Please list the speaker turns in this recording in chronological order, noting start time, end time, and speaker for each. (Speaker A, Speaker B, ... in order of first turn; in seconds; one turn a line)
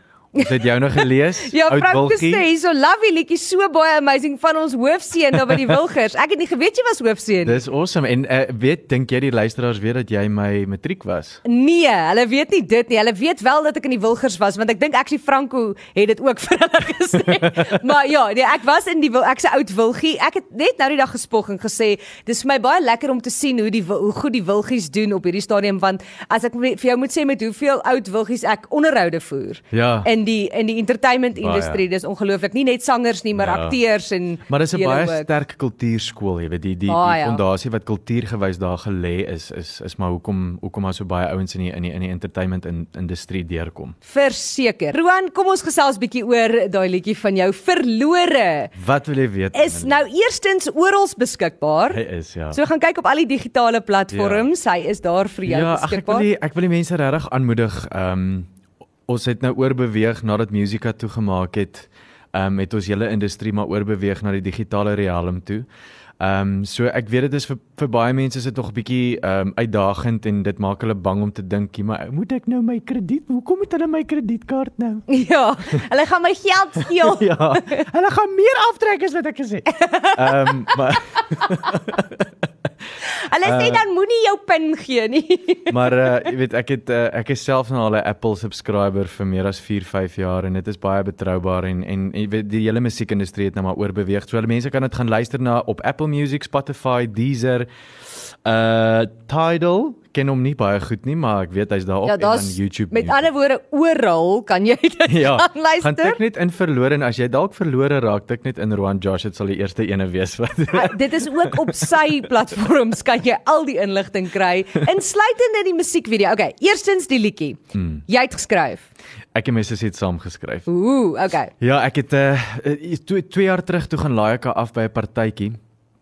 Speaker A: 0.3-2.5
Speaker B: 1.4-7.6
Speaker A: 7.4-11.4
Speaker B: 11.4-35.3
Speaker A: 29.7-30.1
Speaker A: 31.4-31.8
Speaker A: 33.4-33.8
Speaker A: 34.5-43.9
Speaker B: 36.9-37.4
Speaker B: 44.0-48.7
Speaker A: 48.8-50.0
Speaker B: 49.5-56.3
Speaker A: 51.9-52.6
Speaker A: 54.1-54.5
Speaker A: 55.5-58.5
Speaker A: 59.1-65.7
Speaker A: 66.2-75.1
Speaker B: 75.1-77.8
Speaker A: 77.0-82.2
Speaker B: 79.7-80.7
Speaker B: 83.3-86.0
Speaker A: 83.4-83.8
Speaker A: 85.7-97.7
Speaker A: 98.4-103.2
Speaker B: 102.0-106.2
Speaker A: 105.1-111.9
Speaker B: 110.7-118.8
Speaker A: 117.7-118.0
Speaker A: 119.3-120.7
Speaker B: 120.7-121.5
Speaker A: 121.6-125.6